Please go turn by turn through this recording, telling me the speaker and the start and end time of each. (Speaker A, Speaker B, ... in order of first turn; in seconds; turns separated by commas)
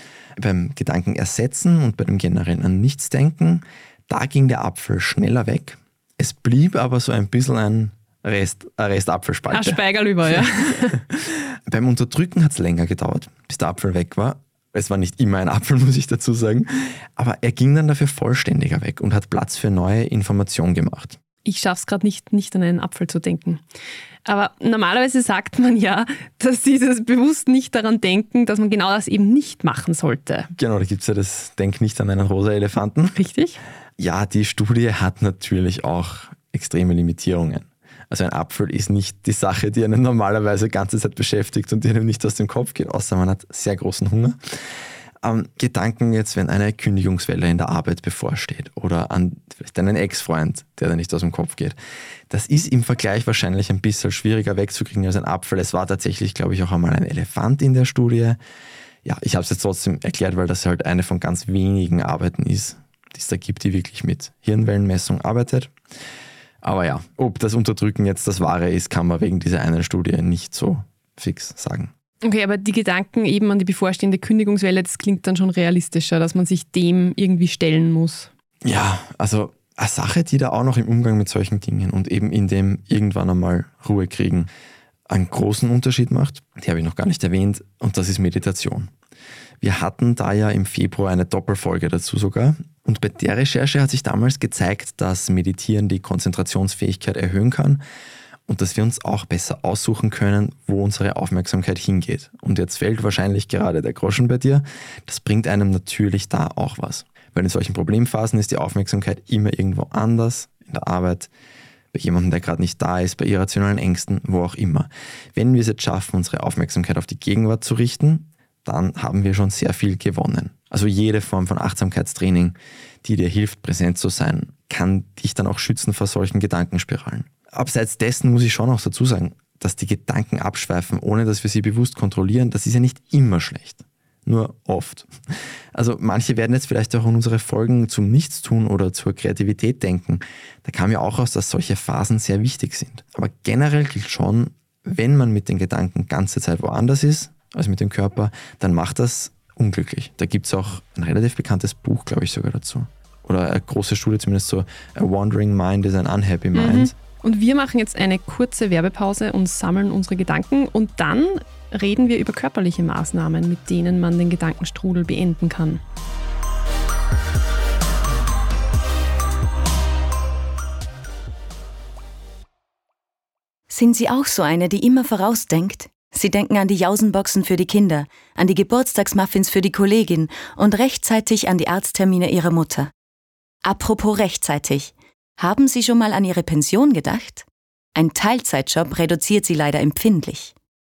Speaker A: 0.4-21.2, Speaker B: 9.5-11.0, Speaker B: 21.4-23.6, Speaker B: 24.2-30.5, Speaker A: 30.5-33.1, Speaker B: 33.1-33.6, Speaker A: 34.0-44.4, Speaker A: 45.2-51.8, Speaker A: 52.3-58.4, Speaker A: 59.0-65.7, Speaker A: 66.6-71.9, Speaker B: 72.2-78.3, Speaker A: 78.6-84.5, Speaker A: 85.1-88.9, Speaker A: 89.6-97.8, Speaker A: 98.5-111.3, Speaker A: 111.9-135.1, Speaker A: 135.7-156.9, Speaker B: 156.5-165.8, Speaker C: 173.7-182.9, Speaker C: 183.6-190.5